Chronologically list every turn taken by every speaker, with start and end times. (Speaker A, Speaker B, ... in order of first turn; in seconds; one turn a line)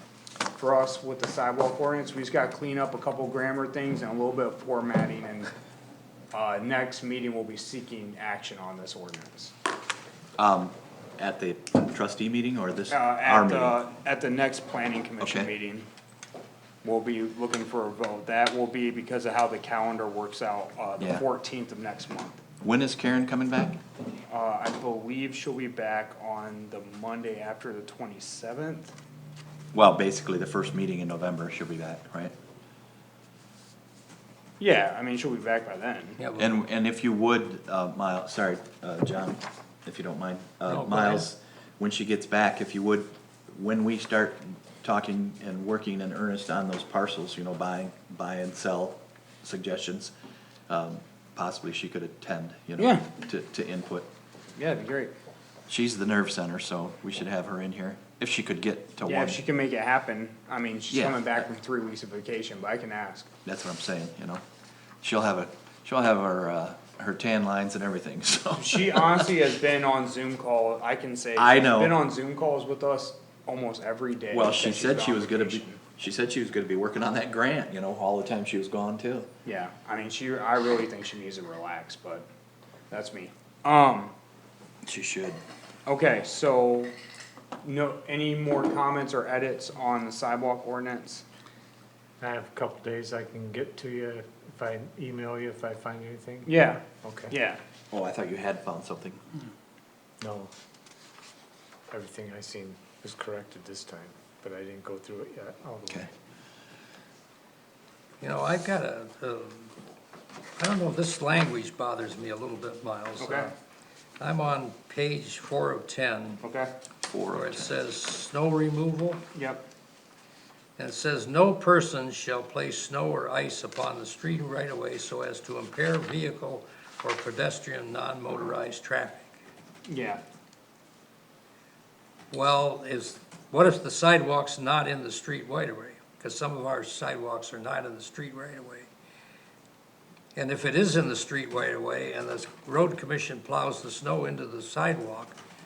Speaker A: 0.6-5.5
Speaker A: 6.3-9.5
Speaker B: 10.4-13.8
Speaker A: 12.9-15.9
Speaker B: 15.2-15.5
Speaker A: 16.8-22.4
Speaker B: 21.0-21.2
Speaker B: 22.6-23.8
Speaker A: 24.3-28.9
Speaker B: 29.7-32.3
Speaker A: 34.6-36.2
Speaker C: 36.2-36.5
Speaker B: 36.4-50.1
Speaker C: 40.7-41.2
Speaker B: 50.7-54.1
Speaker A: 52.8-53.0
Speaker A: 54.6-55.1
Speaker B: 55.7-59.4
Speaker A: 59.0-63.3
Speaker B: 60.9-61.4
Speaker B: 63.4-64.4
Speaker B: 65.0-69.3
Speaker A: 68.5-75.8
Speaker B: 71.3-71.9
Speaker B: 74.3-79.3
Speaker A: 79.4-82.2
Speaker A: 82.9-84.1
Speaker B: 84.8-85.4
Speaker A: 85.9-86.9
Speaker A: 87.6-91.2
Speaker D: 92.2-97.3
Speaker A: 96.5-97.6
Speaker B: 97.9-99.2
Speaker D: 100.2-100.5
Speaker D: 101.9-106.1
Speaker C: 108.2-109.7
Speaker C: 110.6-113.5
Speaker A: 113.2-113.5
Speaker C: 114.2-116.4
Speaker A: 116.4-116.7
Speaker B: 117.1-117.7
Speaker C: 117.3-119.2
Speaker A: 119.3-119.6
Speaker C: 120.8-129.3
Speaker A: 129.9-130.2
Speaker C: 132.3-138.9
Speaker C: 140.3-145.3